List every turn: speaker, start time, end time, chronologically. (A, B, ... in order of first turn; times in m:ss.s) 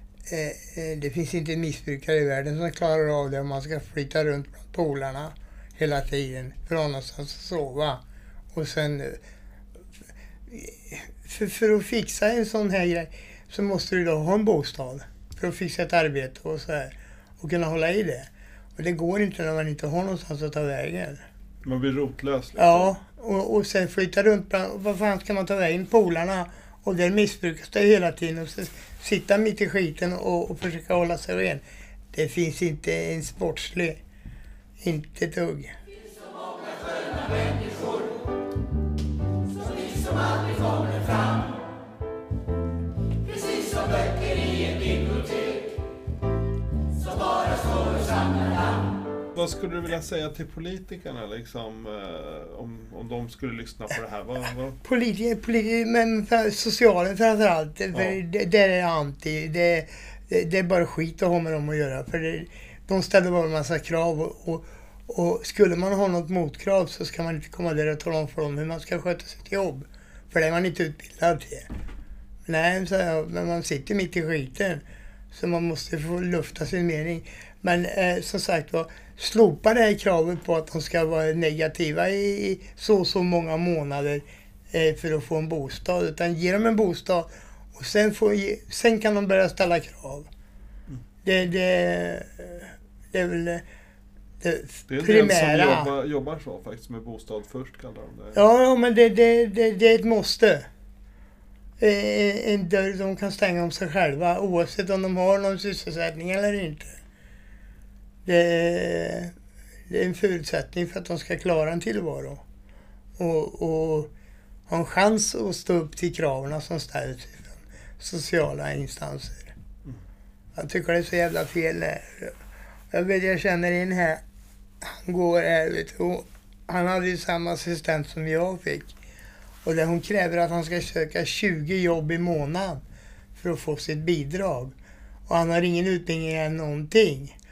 0:00.3-0:08.0 A
0:08.5-0:09.2 A
0:10.5-0:21.2 A
0:21.6-0:22.9 B
0:22.6-0:34.0 A
0:34.8-0:35.7 A
0:49.3-0:54.8 B
0:54.8-1:11.7 A
0:57.9-0:58.2 B
1:12.4-1:30.3 A
1:31.2-1:33.6 A
1:34.4-1:35.9 A
1:34.9-1:38.4 B
1:38.3-1:40.6 A
1:41.8-1:47.0 A
1:48.2-1:49.3 A
1:49.9-1:52.4 A
1:53.2-1:54.1 A
1:54.7-1:59.5 A
2:00.5-2:02.3 A
2:02.9-2:04.2 A
2:04.8-2:09.0 A
2:09.6-2:12.8 A
2:13.4-2:14.7 A
2:15.3-2:17.3 A